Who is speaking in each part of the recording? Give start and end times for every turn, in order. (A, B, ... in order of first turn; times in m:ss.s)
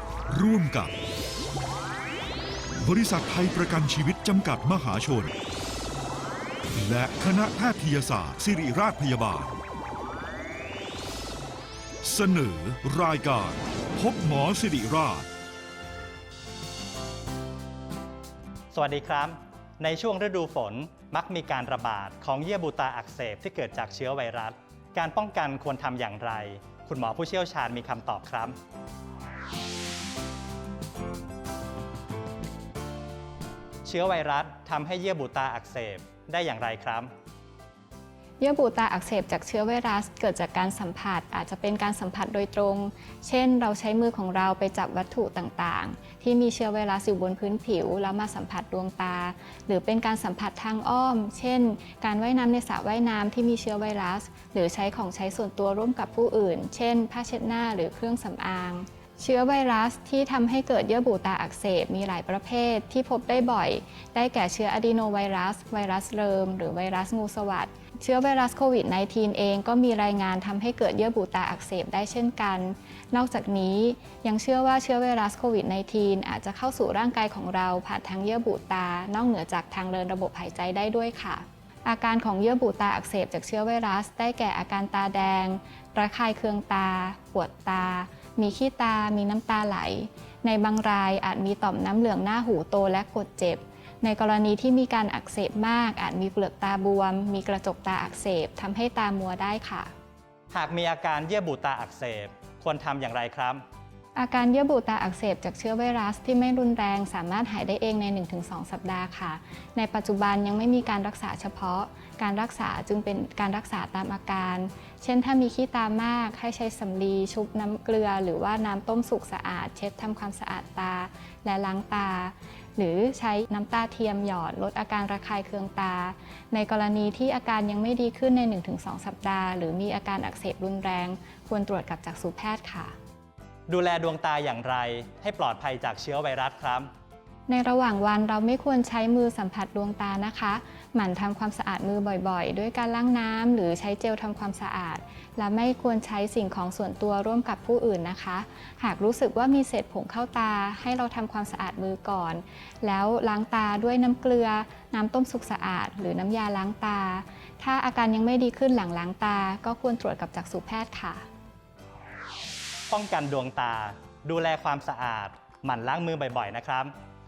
0:00.3-0:00.9 A
0:02.8-0:05.3 A
0:06.8-0:09.6 A
0:12.0-0:15.3 A
0:18.7-0:28.6 B
0:33.8-0:37.1 B
0:38.4-1:39.9 C
1:40.5-1:43.6 B
1:44.2-2:12.9 C
2:13.7-2:16.9 B
2:17.5-2:41.2 C
2:42.9-2:46.9 B